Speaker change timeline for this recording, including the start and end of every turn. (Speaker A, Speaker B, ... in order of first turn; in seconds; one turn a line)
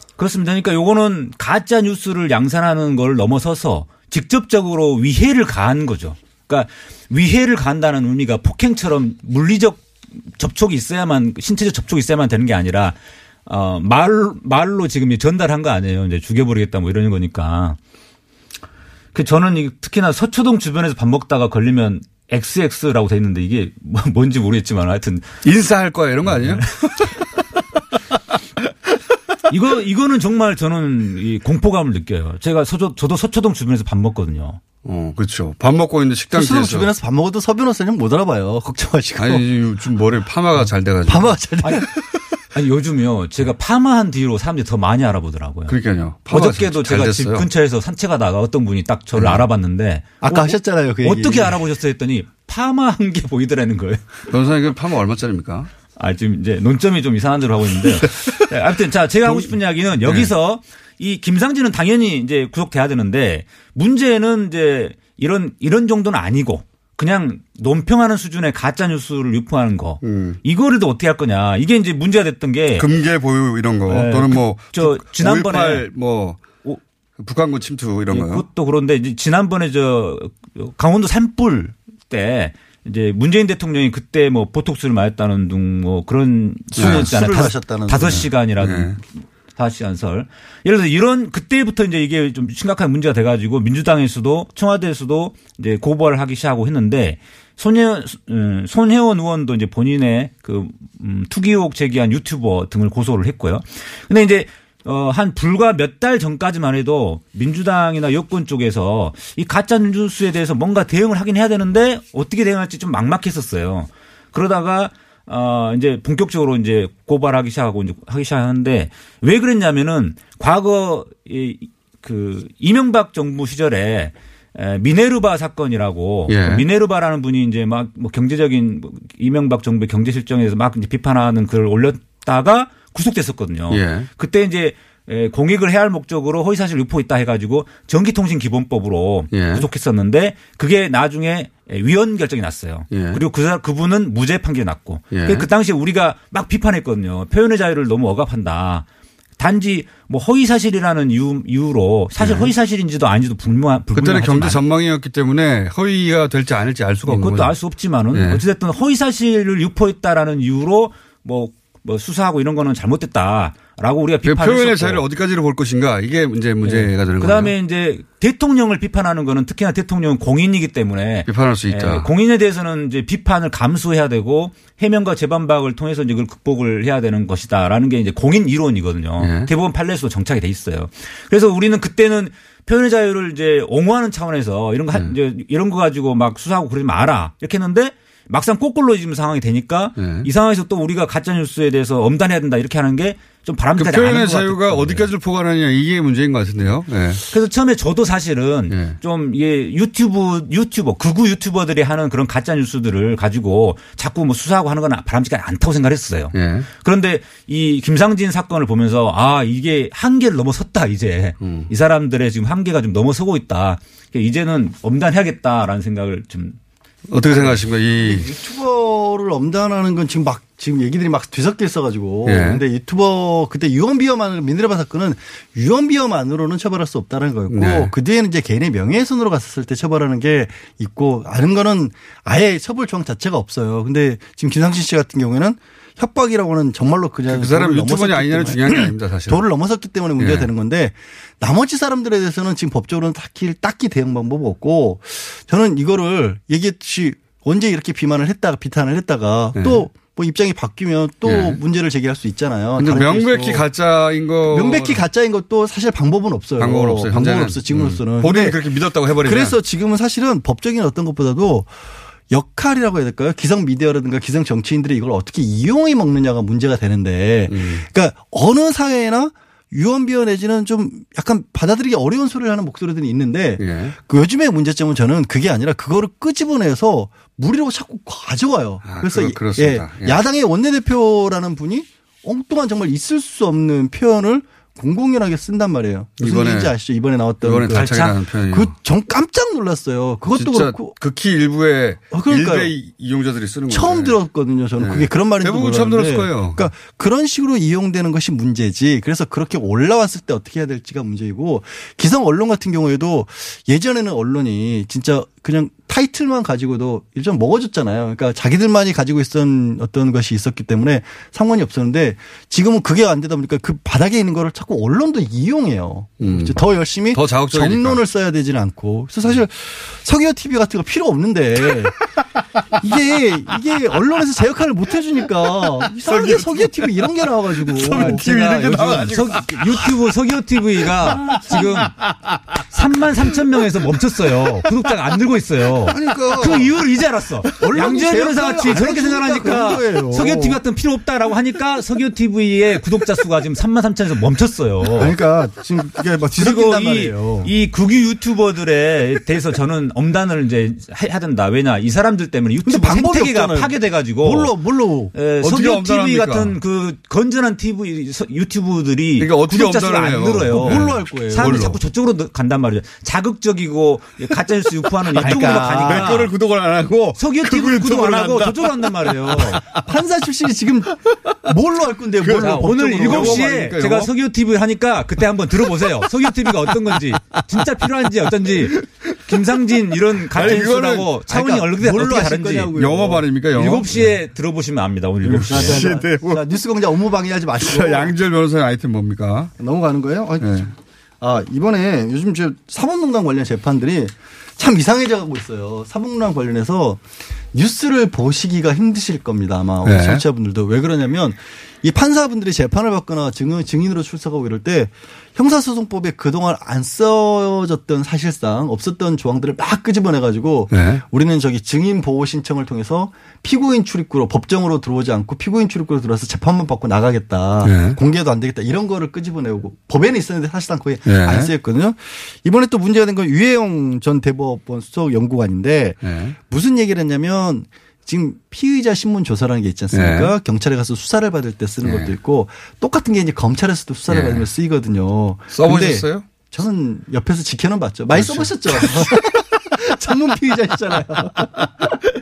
Speaker A: 0.2-17.8
Speaker A: 19.1-25.4
Speaker B: 25.4-27.1
Speaker A: 26.2-27.0
Speaker A: 29.5-34.6
Speaker B: 34.8-36.9
Speaker C: 36.3-39.4
Speaker B: 39.2-41.4
Speaker C: 41.1-42.0
Speaker A: 42.5-54.0
Speaker B: 45.7-47.5
Speaker B: 49.1-49.4
Speaker C: 50.2-51.6
Speaker B: 54.3-55.7
Speaker A: 56.0-72.9
Speaker B: 58.0-58.3
Speaker B: 59.2-60.3
Speaker B: 70.0-70.4
Speaker B: 72.8-76.4
Speaker A: 73.9-75.9
Speaker B: 77.2-78.4
Speaker A: 78.1-148.8
Speaker C: 86.7-88.3
Speaker B: 86.7-87.1
Speaker B: 88.0-89.0
Speaker B: 126.3-126.6
Speaker B: 133.7-134.1
Speaker B: 139.3-139.7
Speaker B: 142.9-143.2
Speaker B: 145.1-145.5
Speaker A: 149.4-154.6
Speaker B: 152.2-152.5
Speaker B: 153.9-157.5
Speaker A: 157.1-165.1
Speaker B: 158.1-158.4
Speaker B: 164.2-167.5
Speaker A: 166.6-195.1
Speaker B: 171.3-172.1
Speaker B: 179.2-179.5
Speaker B: 190.0-190.3
Speaker B: 193.8-197.2
Speaker A: 197.3-216.6
Speaker B: 198.7-199.0
Speaker B: 206.3-206.7
Speaker B: 211.4-211.7
Speaker B: 217.1-218.3
Speaker C: 217.5-253.6
Speaker B: 222.2-222.6
Speaker B: 227.5-227.9
Speaker B: 237.3-239.4
Speaker B: 240.2-240.5
Speaker B: 249.5-249.9
Speaker B: 251.2-251.6
Speaker B: 252.8-255.0
Speaker C: 254.4-258.6
Speaker B: 256.6-259.6
Speaker C: 259.2-261.7
Speaker C: 262.3-290.9
Speaker B: 267.5-267.9
Speaker B: 273.6-273.9
Speaker B: 278.8-280.2
Speaker B: 286.2-286.7
Speaker B: 287.4-288.7
Speaker A: 287.7-288.2
Speaker B: 290.3-294.2
Speaker C: 292.1-292.7
Speaker C: 293.7-322.0
Speaker B: 294.8-296.7
Speaker B: 316.2-318.0
Speaker C: 322.8-328.7
Speaker B: 326.0-327.0
Speaker B: 327.6-329.9
Speaker A: 328.0-332.0
Speaker B: 331.2-331.7
Speaker A: 332.7-345.1
Speaker C: 335.9-336.9
Speaker B: 336.1-336.6
Speaker C: 337.5-340.6
Speaker C: 345.0-347.5
Speaker A: 346.4-354.5
Speaker C: 352.6-355.1
Speaker A: 355.1-366.3
Speaker B: 355.4-356.6
Speaker B: 359.2-361.8
Speaker C: 360.5-361.8
Speaker C: 365.1-366.2
Speaker B: 365.2-369.6
Speaker A: 367.1-369.6
Speaker C: 369.5-373.7
Speaker B: 372.2-374.1
Speaker A: 372.3-382.7
Speaker B: 376.1-376.9
Speaker B: 380.3-381.1
Speaker C: 380.4-383.3
Speaker B: 382.7-384.1
Speaker A: 383.5-386.0
Speaker B: 385.2-386.4
Speaker C: 385.3-388.1
Speaker B: 387.6-389.5
Speaker C: 389.6-397.0
Speaker B: 390.4-390.7
Speaker C: 397.5-442.0
Speaker B: 399.8-400.2
Speaker B: 410.7-411.0
Speaker B: 417.6-418.0
Speaker B: 421.1-421.5
Speaker B: 426.0-426.4
Speaker B: 429.9-430.3
Speaker B: 431.8-432.1
Speaker B: 434.1-434.5
Speaker B: 435.5-436.2
Speaker B: 438.1-439.1